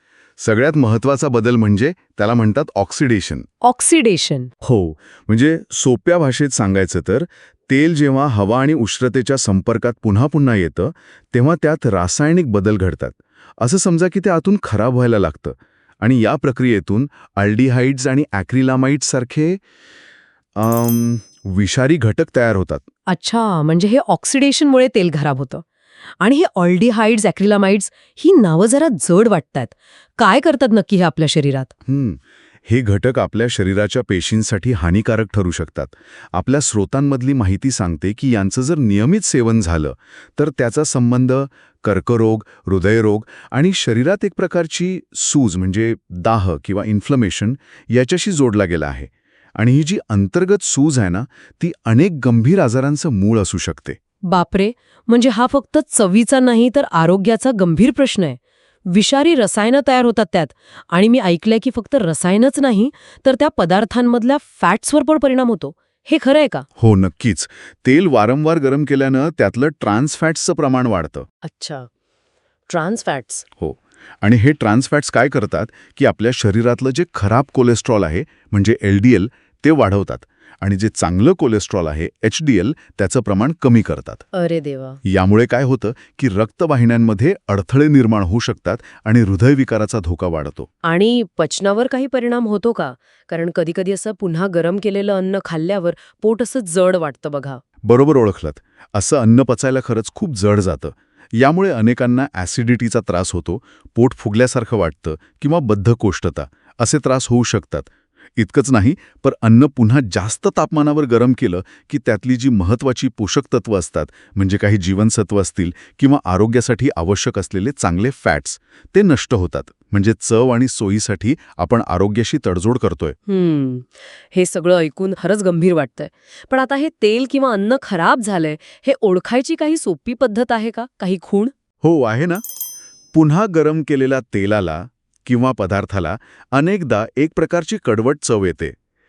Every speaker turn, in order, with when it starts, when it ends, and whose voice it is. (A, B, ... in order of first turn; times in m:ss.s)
0:00.4-0:03.4 A
0:03.6-0:04.5 B
0:04.6-0:19.6 A
0:20.6-0:22.8 A
0:23.1-0:25.6 B
0:26.2-0:31.7 B
0:31.9-0:54.0 A
0:54.3-1:06.6 B
1:06.8-1:11.2 A
1:11.4-1:11.9 B
1:12.7-1:13.4 B
1:13.6-1:24.2 A
1:24.3-1:25.0 B
1:25.0-1:30.7 A
1:30.8-1:37.6 B
1:37.8-2:03.2 A
2:03.3-2:11.5 B
2:11.8-2:12.4 A
2:13.1-2:18.7 A